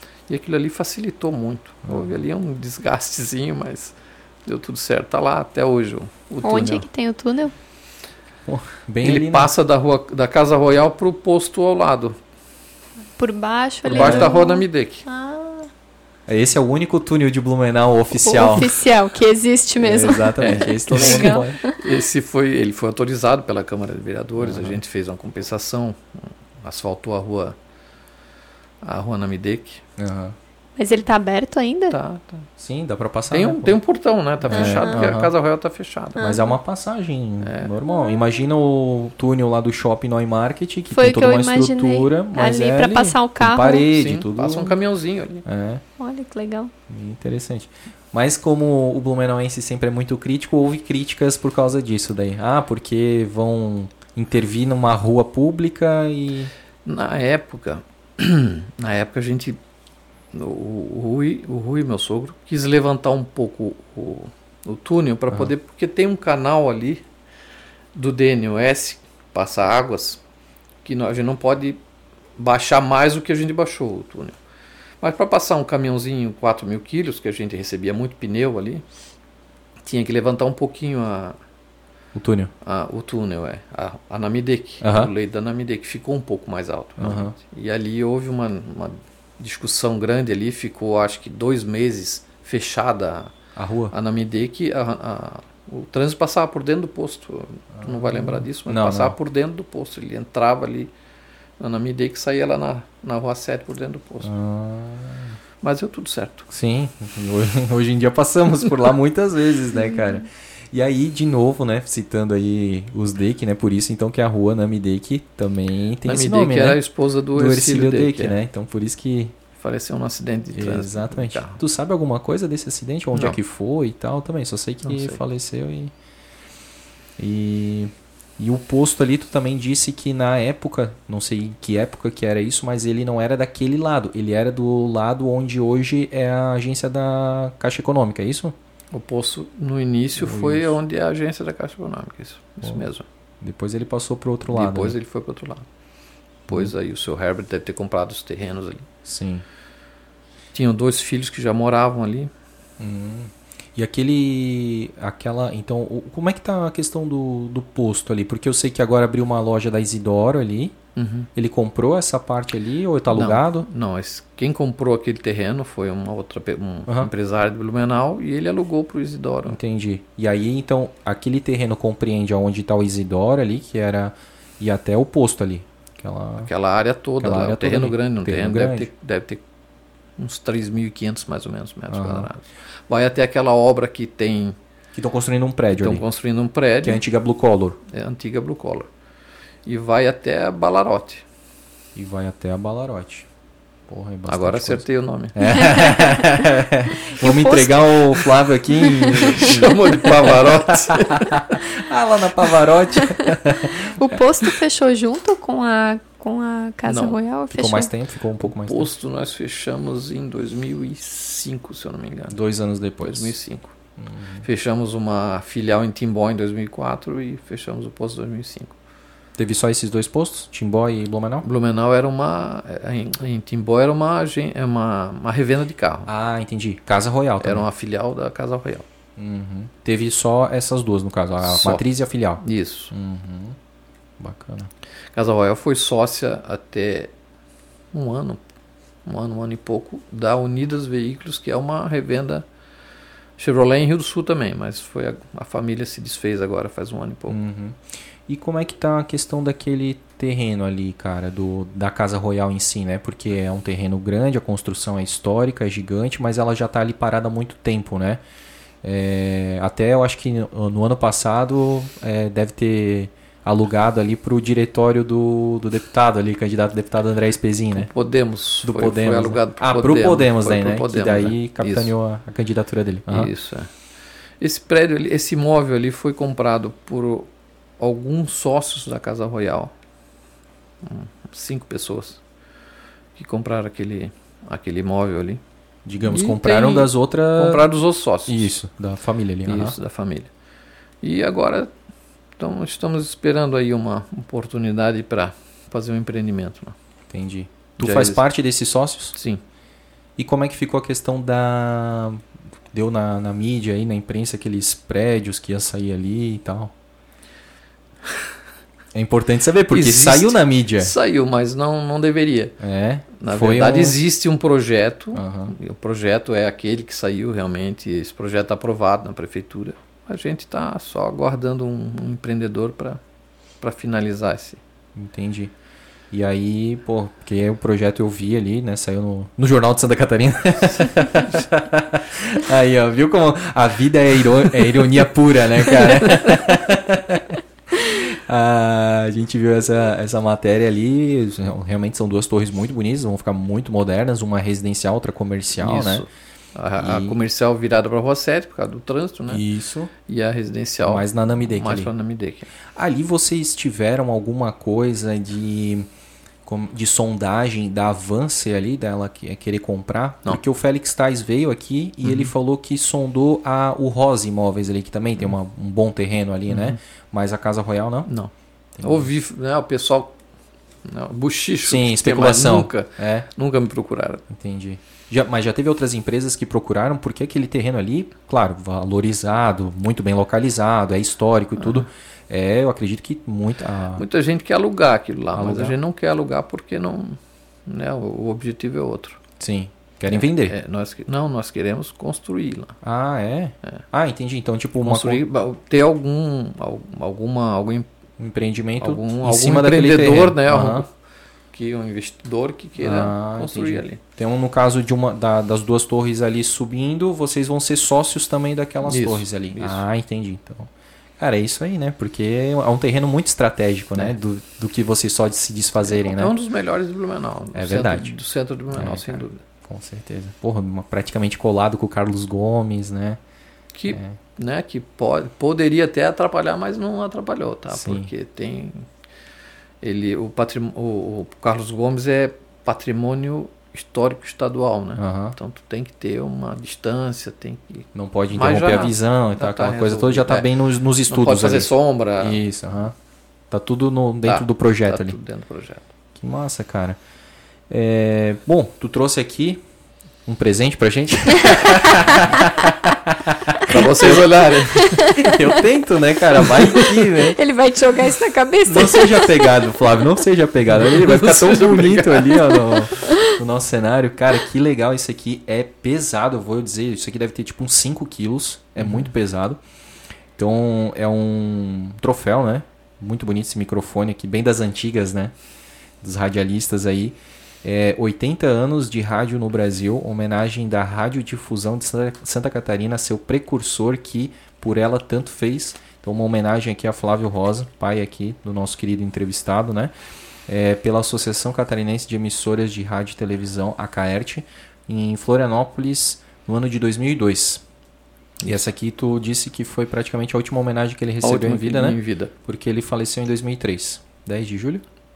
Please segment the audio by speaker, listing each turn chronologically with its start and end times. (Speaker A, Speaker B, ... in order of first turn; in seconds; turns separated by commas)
Speaker A: 0.3-4.0, Speaker B: 1.9-2.2, Speaker A: 4.5-6.9, Speaker C: 6.4-7.5, Speaker B: 8.5-9.5, Speaker A: 9.0-12.2, Speaker C: 13.2-15.7, Speaker A: 13.9-15.1, Speaker B: 13.9-14.3, Speaker B: 16.3-18.8, Speaker C: 18.2-21.8, Speaker B: 19.8-21.6, Speaker A: 20.4-27.6, Speaker B: 24.4-24.8, Speaker A: 28.8-29.8, Speaker B: 30.0-30.4, Speaker C: 30.8-32.0, Speaker A: 31.9-32.5, Speaker B: 32.6-33.8, Speaker A: 33.3-36.3, Speaker B: 34.5-35.3, Speaker C: 34.5-35.1, Speaker B: 36.2-44.8, Speaker C: 36.2-36.5, Speaker A: 37.4-37.7, Speaker C: 40.9-43.9, Speaker A: 43.9-45.5, Speaker B: 45.5-45.8, Speaker C: 46.0-46.7, Speaker B: 46.9-56.5, Speaker A: 56.9-59.6, Speaker A: 60.3-67.0, Speaker A: 68.0-70.2, Speaker A: 70.8-71.8, Speaker A: 72.4-74.4, Speaker A: 75.0-78.8, Speaker A: 79.8-81.4, Speaker B: 82.1-82.5, Speaker A: 82.6-93.3, Speaker B: 84.8-85.1, Speaker B: 87.0-87.3, Speaker B: 93.6-93.9, Speaker A: 93.9-100.9, Speaker B: 97.7-99.2, Speaker A: 101.6-104.3, Speaker B: 104.2-105.4, Speaker A: 105.6-106.5, Speaker B: 106.5-116.8, Speaker A: 116.0-118.4, Speaker B: 117.3-119.4, Speaker A: 119.5-121.6, Speaker B: 120.5-125.9, Speaker A: 124.8-125.2, Speaker B: 127.2-138.6, Speaker A: 138.9-143.1, Speaker B: 140.2-140.8, Speaker B: 143.4-145.0, Speaker A: 144.5-145.7, Speaker A: 146.5-148.9, Speaker B: 149.1-149.4, Speaker A: 150.5-152.3, Speaker B: 152.8-160.8, Speaker A: 161.0-161.3, Speaker B: 161.3-163.7, Speaker A: 163.1-169.6, Speaker B: 169.5-176.5, Speaker A: 176.4-179.4, Speaker B: 177.2-178.9, Speaker A: 180.2-184.6, Speaker B: 181.9-182.3, Speaker B: 184.9-186.0, Speaker A: 185.7-187.0, Speaker B: 186.8-187.8, Speaker A: 187.9-188.9, Speaker A: 189.7-191.2, Speaker B: 192.0-193.3, Speaker B: 193.9-204.2, Speaker A: 194.3-195.7, Speaker C: 195.5-196.4, Speaker C: 197.0-199.5, Speaker A: 199.1-201.6, Speaker C: 203.0-207.9, Speaker A: 206.9-207.2, Speaker B: 207.5-208.9, Speaker A: 208.4-212.4, Speaker B: 212.3-213.3, Speaker A: 213.0-213.8, Speaker B: 214.0-214.5, Speaker A: 214.4-218.8, Speaker B: 219.4-221.4, Speaker A: 221.4-226.1, Speaker B: 226.1-227.7, Speaker A: 227.4-228.9, Speaker B: 229.2-233.6, Speaker A: 231.4-231.8, Speaker A: 232.4-232.9, Speaker B: 234.2-234.7, Speaker A: 235.2-237.1, Speaker A: 237.9-238.4, Speaker A: 239.1-242.5, Speaker A: 243.4-247.4, Speaker B: 247.3-258.2, Speaker B: 258.8-267.9, Speaker A: 267.7-271.9, Speaker B: 268.6-273.3, Speaker A: 273.1-273.7, Speaker A: 274.4-279.7, Speaker A: 280.8-282.2, Speaker A: 283.2-285.4, Speaker B: 285.9-287.7, Speaker A: 286.0-288.5, Speaker B: 288.3-289.8, Speaker A: 289.4-290.3, Speaker A: 291.0-291.7, Speaker A: 292.4-296.8, Speaker B: 297.1-299.1, Speaker A: 297.8-298.2, Speaker A: 299.1-299.4, Speaker B: 300.2-306.7, Speaker B: 308.9-310.9, Speaker A: 309.7-312.6, Speaker B: 312.6-314.0, Speaker A: 313.2-323.0, Speaker B: 315.1-315.5, Speaker A: 323.6-324.6, Speaker B: 324.9-325.5, Speaker B: 326.1-346.1, Speaker A: 345.6-349.4, Speaker B: 346.8-347.2, Speaker B: 349.3-349.9, Speaker A: 350.1-352.5, Speaker B: 350.9-351.9, Speaker B: 352.7-355.9, Speaker B: 356.4-368.1, Speaker A: 362.0-362.3, Speaker A: 366.5-366.8, Speaker A: 368.1-370.2, Speaker B: 368.8-369.1, Speaker A: 370.9-374.2, Speaker B: 371.6-373.3, Speaker B: 374.3-384.1, Speaker A: 383.9-389.2, Speaker B: 385.4-385.8, Speaker B: 389.4-390.6, Speaker A: 390.1-392.8, Speaker B: 392.8-395.2, Speaker A: 394.8-397.9, Speaker B: 398.2-400.9, Speaker A: 398.8-400.9, Speaker A: 401.5-404.0, Speaker B: 402.8-416.3, Speaker A: 408.8-409.8, Speaker A: 415.8-419.4, Speaker B: 417.6-418.1, Speaker B: 418.7-423.2, Speaker A: 423.7-428.9, Speaker B: 423.9-424.2, Speaker B: 427.7-428.1, Speaker A: 429.8-440.5, Speaker B: 435.0-435.4, Speaker B: 437.9-443.0, Speaker A: 441.1-442.4, Speaker B: 443.5-445.2, Speaker A: 444.2-445.9, Speaker B: 446.1-447.0, Speaker B: 447.7-449.6, Speaker B: 450.3-457.4, Speaker A: 453.6-455.1, Speaker C: 454.8-455.6, Speaker C: 456.4-459.7, Speaker B: 458.7-469.6, Speaker A: 460.7-462.7, Speaker A: 468.8-469.1, Speaker B: 470.4-475.4, Speaker B: 476.0-489.9, Speaker B: 490.5-497.6, Speaker B: 498.4-504.8, Speaker A: 501.2-502.3